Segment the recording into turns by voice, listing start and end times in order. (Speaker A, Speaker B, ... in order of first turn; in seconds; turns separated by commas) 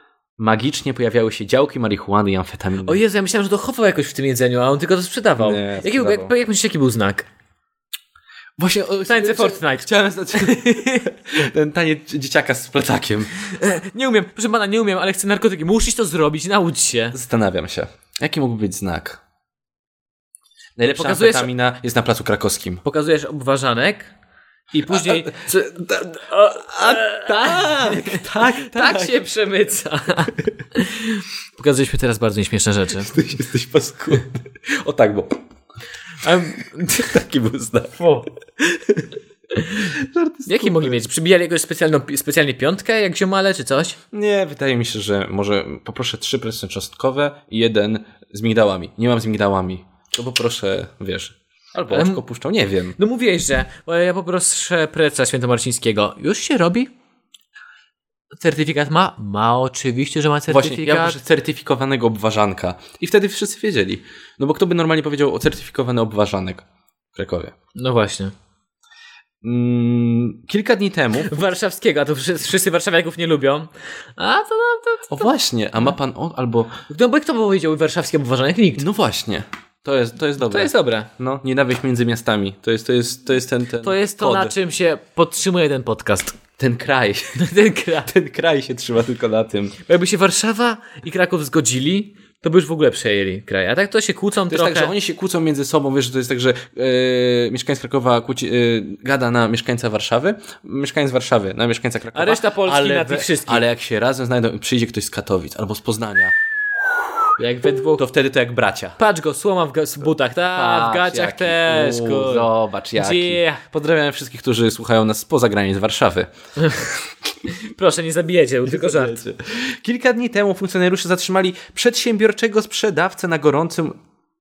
Speaker A: 0.4-3.0, Speaker B: 2.8-7.3, Speaker A: 5.4-6.3, Speaker A: 8.6-13.3, Speaker B: 9.1-11.1, Speaker B: 13.4-17.1, Speaker A: 17.1-19.2, Speaker A: 20.8-22.8, Speaker B: 20.9-21.5, Speaker B: 22.8-24.1, Speaker B: 24.7-33.1, Speaker A: 24.9-29.2, Speaker A: 33.0-35.4, Speaker B: 36.2-37.1, Speaker A: 36.9-38.0, Speaker B: 38.0-38.2, Speaker B: 39.5-39.9, Speaker A: 39.9-41.0, Speaker B: 40.5-44.0, Speaker A: 44.1-53.0, Speaker B: 51.9-52.2, Speaker B: 53.0-56.9, Speaker B: 58.4-61.2, Speaker A: 60.5-66.6, Speaker A: 67.1-67.5, Speaker B: 67.7-68.3, Speaker A: 69.4-71.4, Speaker B: 71.2-75.2, Speaker A: 75.1-76.8, Speaker B: 76.9-78.8, Speaker A: 78.8-84.5, Speaker B: 80.4-81.1, Speaker B: 83.8-86.4, Speaker A: 86.6-87.5, Speaker B: 87.3-88.1, Speaker A: 88.0-89.8, Speaker B: 89.8-94.9, Speaker A: 94.5-106.3, Speaker B: 102.1-103.7, Speaker B: 107.4-108.0, Speaker A: 108.0-109.0, Speaker B: 109.0-113.6, Speaker A: 110.5-116.3, Speaker B: 116.6-116.8, Speaker B: 117.5-119.2, Speaker A: 118.7-124.0